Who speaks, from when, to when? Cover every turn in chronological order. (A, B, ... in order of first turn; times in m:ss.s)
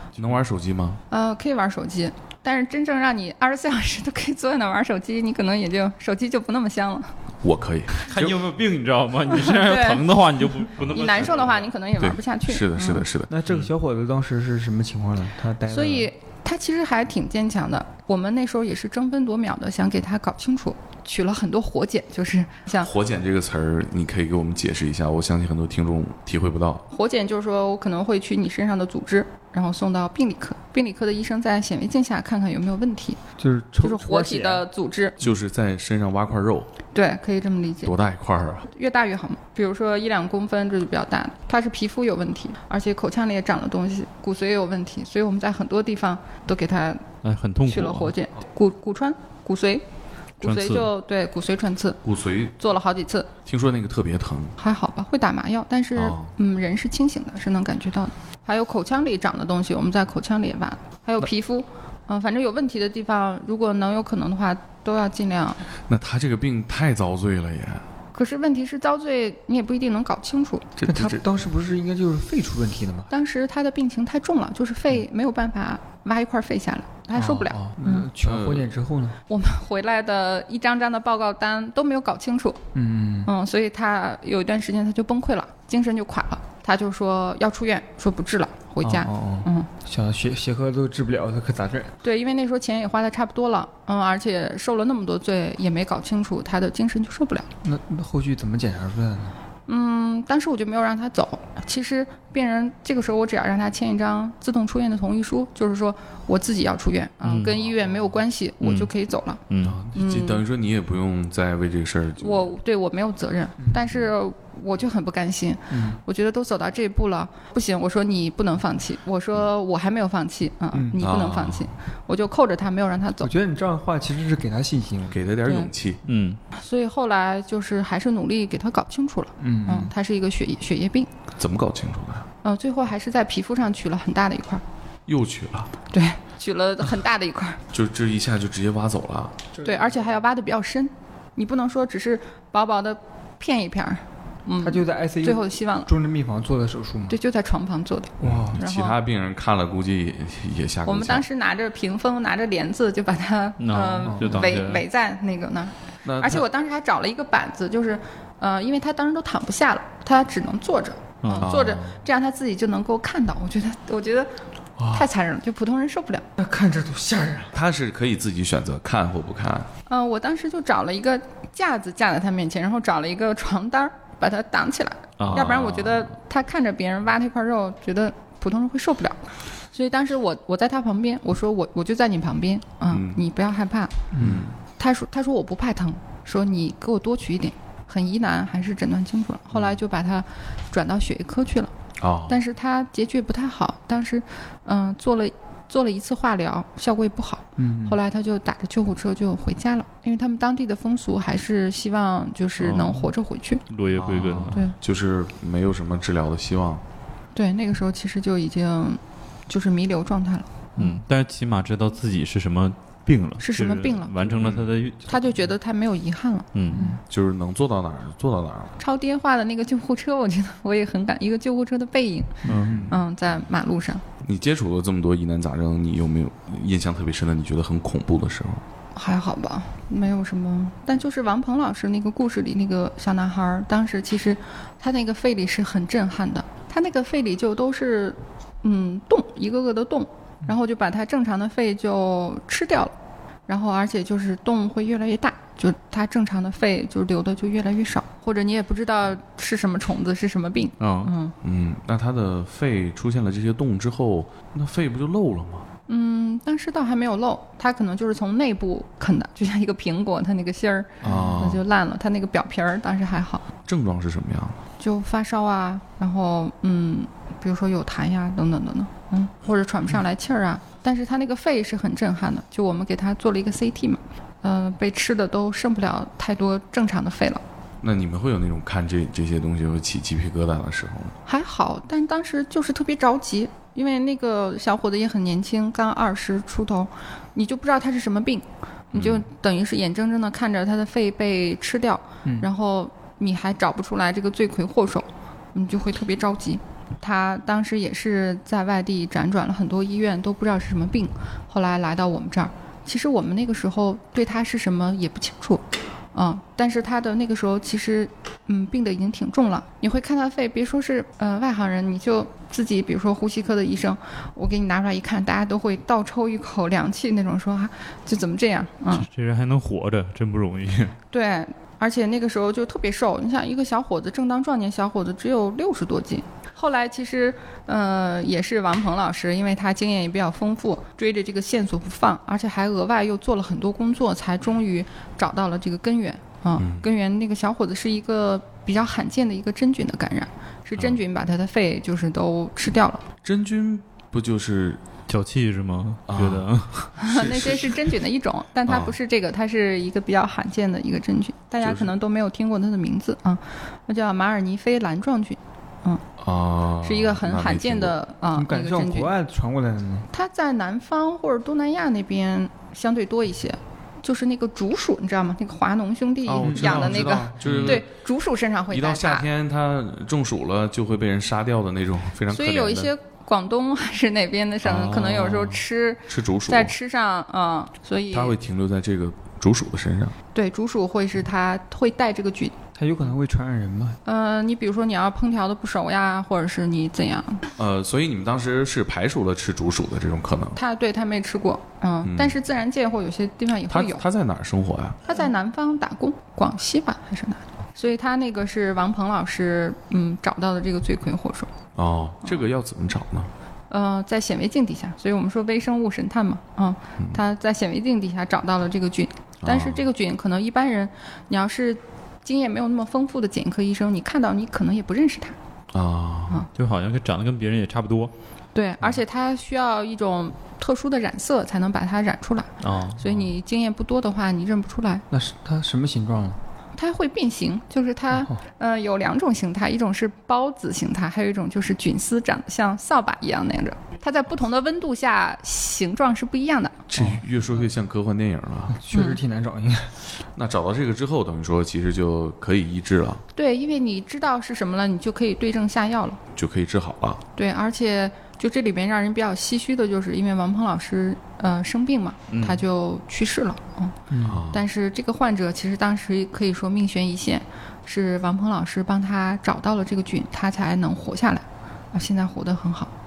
0:00.2-0:01.0 A
0:01.1-0:07.1 B
0:07.4-0:08.4 A
0:08.0-0:11.7 C
0:09.3-0:10.1 B
0:10.6-0:13.0 B
0:12.0-0:13.3 A
0:13.3-0:16.1 D
0:15.7-0:22.9 B
0:22.8-0:26.8 A
0:26.9-0:33.2 B
0:33.4-0:34.6 D
0:33.8-0:35.2 B
0:35.2-0:36.7 A
0:36.9-0:37.9 B
0:37.8-0:38.7 A
0:38.7-0:47.1 B
0:47.2-0:48.1 C
0:47.6-0:49.8 B
0:50.4-0:52.0 B
0:50.4-0:50.9 C
0:52.0-0:52.5 A
0:52.6-0:53.3 B
0:53.4-0:54.6 A
0:54.6-1:05.6 B
0:56.0-0:56.3 A
1:05.9-1:07.8 A
1:08.1-1:10.7 B
1:10.8-1:11.2 A
1:10.9-1:13.1 D
1:13.1-1:18.1 B
1:17.1-1:19.2 D
1:18.2-1:18.7 A
1:19.3-1:22.6 B
1:22.7-1:23.3 D
1:23.2-1:29.7 B
1:28.8-1:31.9 D
1:32.0-1:37.5 B
1:37.6-1:39.3 D
1:39.7-1:50.4 B
1:47.2-1:47.5 C
1:48.6-1:48.9 C
1:49.5-1:49.8 C
1:49.6-1:52.5 A
1:52.2-2:03.3 B
1:53.6-1:53.8 D
1:55.7-1:56.0 D
2:00.7-2:01.0 D
2:01.0-2:01.7 A
2:03.2-2:05.3 D
2:05.1-2:06.0 A
2:05.4-2:05.7 B
2:06.0-2:06.4 C
2:06.5-2:11.1 B
2:09.4-2:09.9 D
2:11.4-2:12.3 A
2:12.4-2:14.6 B
2:15.1-2:15.7 A
2:15.9-2:17.6 B
2:17.7-2:19.3 A
2:19.6-2:20.0 D
2:19.6-2:25.9 B
2:24.6-2:27.2 D
2:27.1-2:29.0 B
2:28.2-2:28.6 D
2:28.2-2:31.2 A
2:30.8-2:44.3 B
2:33.6-2:34.8 C
2:34.0-2:34.6 D
2:36.0-2:36.4 A
2:41.2-2:41.5 C
2:41.4-2:42.0 A
2:44.9-2:46.3 B
2:46.4-2:47.5 D
2:47.5-2:49.7 A
2:49.9-3:03.9 B
2:55.2-2:55.6 C
2:55.2-2:56.1 A
3:02.9-3:03.2 A
3:04.1-3:04.4 D
3:04.2-3:04.5 A
3:04.8-3:11.7 B
3:12.0-3:12.4 A
3:12.3-3:23.6 B
3:17.6-3:18.0 D
3:22.6-3:23.1 C
3:23.7-3:24.6 C
3:23.9-3:26.8 A
3:27.3-3:30.5 B
3:30.8-3:35.1 C
3:33.4-3:34.3 B
3:34.4-3:34.7 A
3:35.1-3:37.0 B
3:36.5-3:36.8 C
3:36.7-3:37.0 D
3:37.1-3:38.7 A
3:38.8-3:44.0 B
3:42.4-3:42.8 C
3:42.4-3:43.0 D
3:44.2-3:48.6 A
3:48.9-4:02.9 B
4:03.5-4:11.3 B
4:10.8-4:11.1 C
4:11.4-4:15.6 A
4:15.9-4:23.4 B
4:21.0-4:21.6 A
4:21.0-4:21.4 D
4:23.7-4:24.6 A
4:24.8-4:37.4 B
4:37.8-4:41.1 A
4:41.2-5:05.6 B
4:48.9-4:49.2 A
4:52.2-4:52.5 D
5:06.1-5:19.1 B
5:18.9-5:21.0 C
5:21.1-5:43.0 B
5:36.6-5:36.8 A
5:43.2-5:44.8 A
5:45.1-5:46.9 C
5:46.1-5:47.9 A
5:47.0-5:56.0 B
5:48.7-5:49.0 A
5:51.6-5:51.9 A
5:56.2-5:58.0 A
5:56.8-5:59.1 B
5:58.3-6:00.1 D
6:00.1-6:09.2 B
6:06.2-6:07.8 A
6:06.4-6:07.5 D
6:07.4-6:07.8 C
6:08.7-6:12.9 A
6:12.3-6:18.4 B
6:14.6-6:16.7 A
6:18.1-6:20.1 A
6:20.3-6:22.5 B
6:22.7-6:24.0 D
6:24.0-6:27.5 B
6:27.6-6:30.6 A
6:30.6-6:34.0 B
6:32.0-6:32.4 A
6:33.7-6:35.1 A
6:35.1-6:41.5 B
6:41.8-6:43.3 A
6:43.7-6:55.4 B
6:49.4-6:49.8 A
6:55.7-6:56.4 A
6:56.5-6:58.1 C
6:58.5-7:05.0 B
7:02.6-7:03.0 C
7:05.1-7:06.4 D
7:06.8-7:16.9 B
7:16.9-7:18.8 A
7:18.7-7:20.0 D
7:18.9-7:19.2 B
7:20.4-7:23.2 A
7:23.3-7:26.2 B
7:26.3-7:27.2 A
7:27.4-7:34.0 B
7:32.3-7:32.6 C
7:34.1-7:34.4 D
7:34.2-7:34.7 A
7:34.5-7:42.9 B